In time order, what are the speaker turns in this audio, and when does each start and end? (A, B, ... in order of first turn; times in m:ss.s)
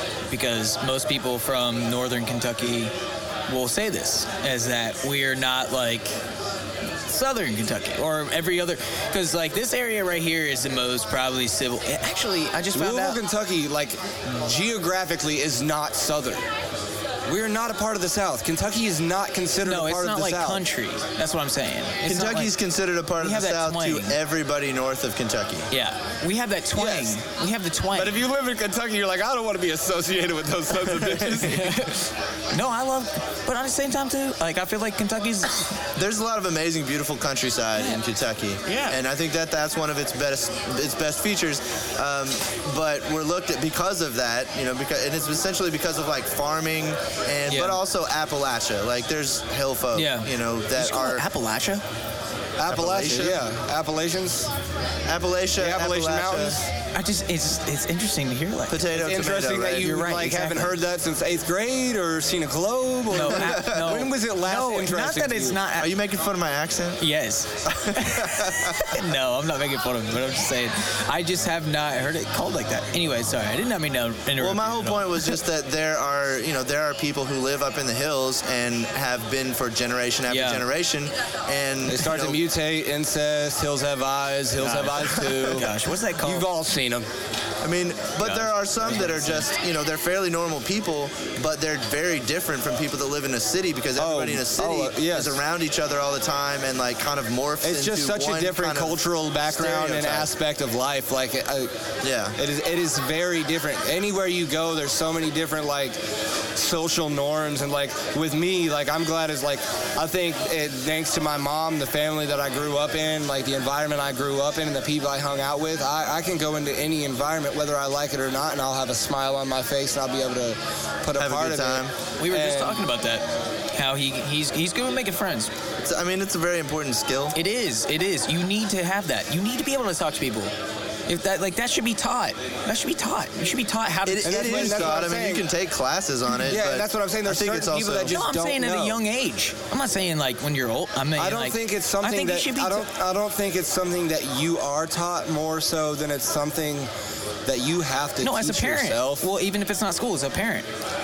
0:00.3-0:02.9 A
0:03.5-0:06.1 A
0:07.1-0:13.2 A
0:12.7-0:16.4 B
0:17.3-0:20.6 B
0:19.6-0:22.6 A
0:22.0-0:25.7 C
0:23.2-0:24.2 A
0:25.7-0:28.2 A
0:26.8-0:27.2 B
0:27.9-0:32.0 B
0:31.4-0:35.8 A
0:36.0-0:51.2 C
0:38.6-0:39.0 A
0:47.5-0:47.8 A
0:49.9-0:51.8 A
0:52.6-0:54.5 B
0:52.6-0:53.4 C
0:55.1-0:56.6 C
0:55.6-0:56.7 B
0:56.9-0:58.9 A
0:58.7-0:59.9 C
0:58.9-1:05.6 B
0:59.8-1:00.8 A
1:03.1-1:05.9 A
1:03.2-1:03.9 C
1:05.8-1:07.0 C
1:07.0-1:15.4 A
1:07.6-1:09.0 C
1:14.4-1:22.4 C
1:20.3-1:20.6 A
1:21.9-1:27.1 B
1:24.6-1:26.5 A
1:24.7-1:25.5 C
1:27.6-1:40.3 C
1:28.2-1:29.4 A
1:34.0-1:35.4 B
1:37.6-1:41.7 B
1:42.0-1:42.4 C
1:42.4-1:46.0 B
1:46.6-2:02.8 B
2:01.2-2:01.9 C
2:02.2-2:05.5 A
2:05.8-2:07.4 C
2:07.3-2:10.5 A
2:11.1-2:15.0 A
2:14.0-2:18.2 C
2:14.2-2:15.4 B
2:16.4-2:19.0 B
2:18.1-2:22.9 A
2:21.2-2:26.9 B
2:27.4-2:29.3 B
2:28.2-2:30.7 A